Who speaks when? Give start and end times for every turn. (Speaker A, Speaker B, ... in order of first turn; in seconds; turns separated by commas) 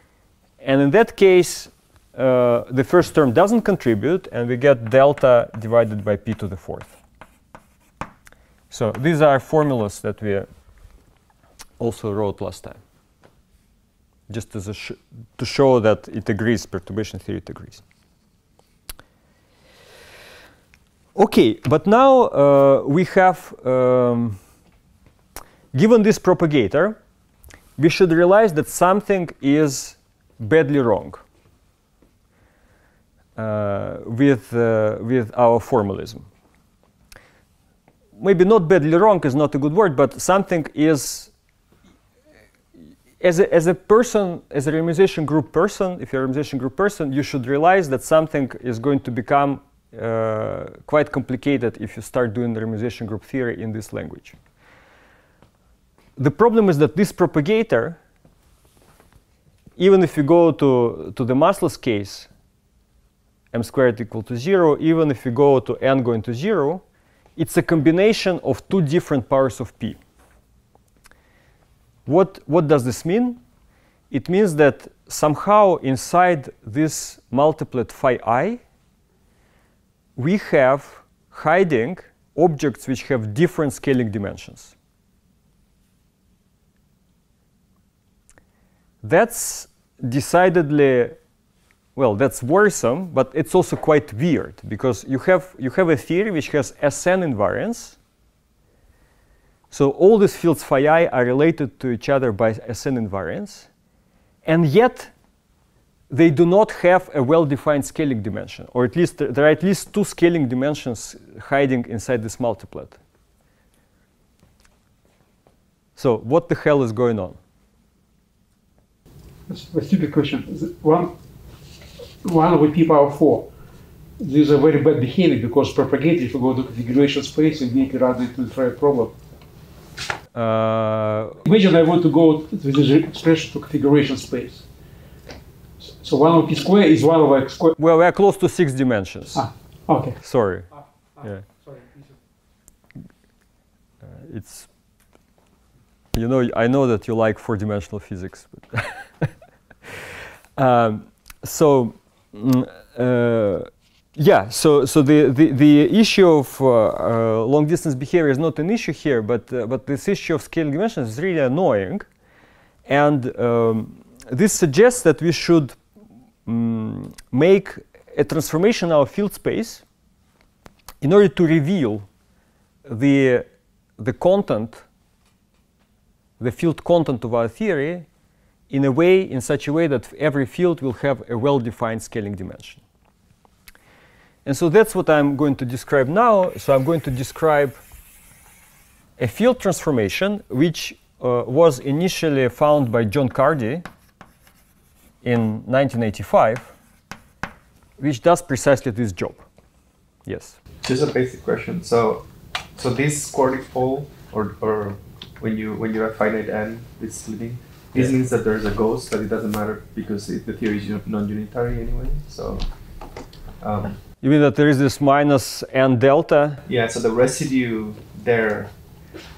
Speaker A: 0.6-7.0, Speaker A: 8.7-10.5, Speaker A: 11.8-12.8, Speaker A: 14.3-17.8, Speaker A: 21.1-24.4, Speaker A: 25.7-27.0, Speaker A: 27.8-31.2, Speaker A: 33.4-36.3, Speaker A: 38.2-41.3, Speaker A: 43.2-54.4, Speaker A: 56.2-58.0, Speaker A: 59.8-62.3, Speaker A: 63.5-66.8, Speaker A: 67.4-70.0, Speaker A: 72.1-73.4, Speaker A: 74.1-78.6, Speaker A: 80.2-84.8, Speaker A: 89.0-91.2, Speaker A: 92.0-98.0, Speaker A: 99.7-103.7, Speaker A: 104.5-105.1, Speaker A: 106.1-113.0, Speaker A: 116.0-117.4, Speaker B: 119.5-121.2, Speaker B: 122.2-123.5, Speaker B: 124.2-129.1, Speaker A: 130.3-131.4, Speaker B: 131.4-134.7, Speaker B: 135.8-137.8, Speaker A: 137.8-139.5, Speaker B: 139.3-140.2, Speaker A: 140.2-140.7, Speaker A: 141.2-141.5, Speaker B: 141.7-142.0, Speaker A: 144.1-144.7, Speaker A: 146.1-149.3, Speaker A: 150.6-162.1, Speaker A: 162.9-165.8, Speaker A: 166.5-169.8, Speaker A: 171.0-172.1, Speaker A: 172.9-173.5, Speaker A: 174.0-174.8, Speaker A: 176.4-178.1, Speaker A: 178.7-182.8, Speaker A: 184.5-187.8, Speaker A: 189.2-193.9, Speaker A: 195.2-196.7, Speaker A: 198.0-199.4, Speaker A: 200.3-200.6, Speaker C: 200.8-202.2, Speaker C: 202.8-212.6, Speaker C: 213.6-214.0, Speaker A: 214.2-216.6, Speaker C: 216.7-218.7